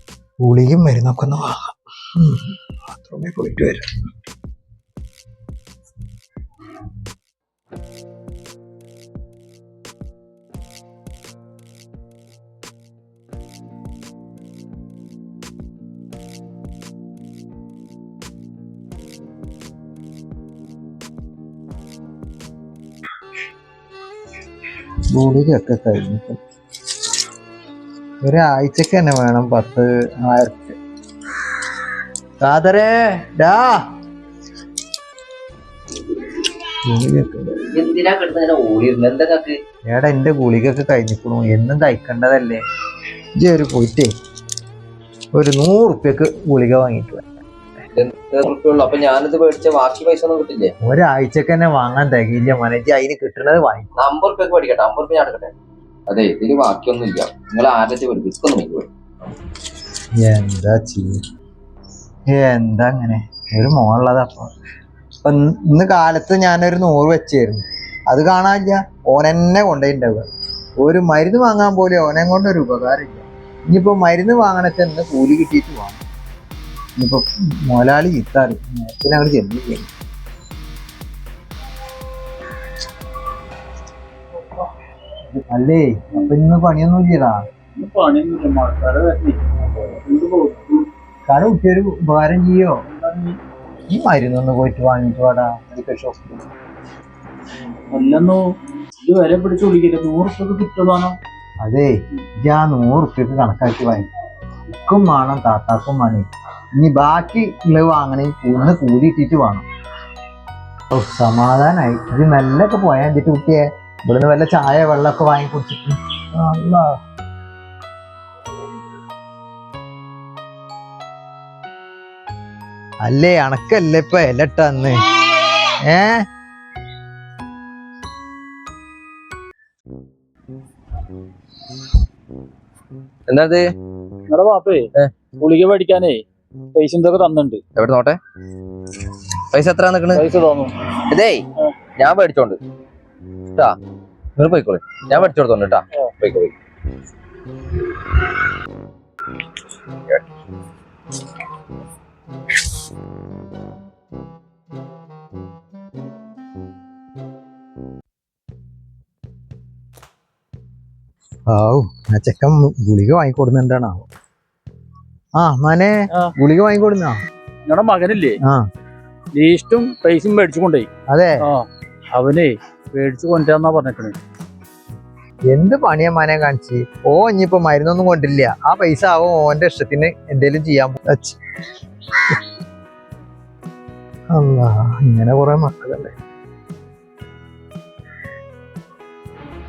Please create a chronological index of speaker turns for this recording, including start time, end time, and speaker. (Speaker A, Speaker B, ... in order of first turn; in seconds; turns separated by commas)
Speaker A: 0.4-4.0, Speaker A: 25.1-26.4, Speaker A: 28.2-30.8, Speaker A: 32.4-33.8, Speaker A: 36.9-37.6, Speaker B: 37.7-39.6, Speaker A: 39.9-42.6, Speaker A: 43.4-44.1, Speaker A: 45.3-47.3, Speaker B: 47.9-50.7, Speaker A: 50.8-53.9, Speaker B: 54.0-55.5, Speaker B: 56.1-58.9, Speaker A: 60.2-61.2, Speaker A: 62.3-64.5, Speaker A: 65.2-70.3, Speaker A: 70.8-76.0, Speaker A: 77.0-79.9, Speaker A: 85.5-87.4, Speaker C: 87.8-90.8, Speaker A: 91.3-92.8, Speaker C: 92.9-93.4, Speaker A: 93.9-96.5, Speaker C: 97.9-98.4, Speaker C: 99.0-101.2, Speaker A: 101.6-104.1, Speaker A: 104.8-109.7, Speaker A: 110.9-117.0, Speaker A: 123.0-125.0, Speaker A: 125.9-126.2, Speaker B: 133.3-133.6, Speaker C: 134.3-134.9, Speaker C: 135.4-136.2, Speaker C: 136.7-137.6, Speaker B: 137.8-138.2, Speaker B: 139.5-140.2, Speaker C: 140.1-140.7, Speaker B: 141.1-141.4, Speaker B: 142.0-142.6, Speaker B: 144.4-146.5, Speaker A: 161.5-164.1, Speaker A: 165.4-167.2, Speaker C: 167.7-168.3, Speaker C: 169.3-170.9, Speaker A: 171.1-171.4, Speaker C: 171.5-174.2, Speaker A: 175.5-181.4, Speaker A: 184.3-186.1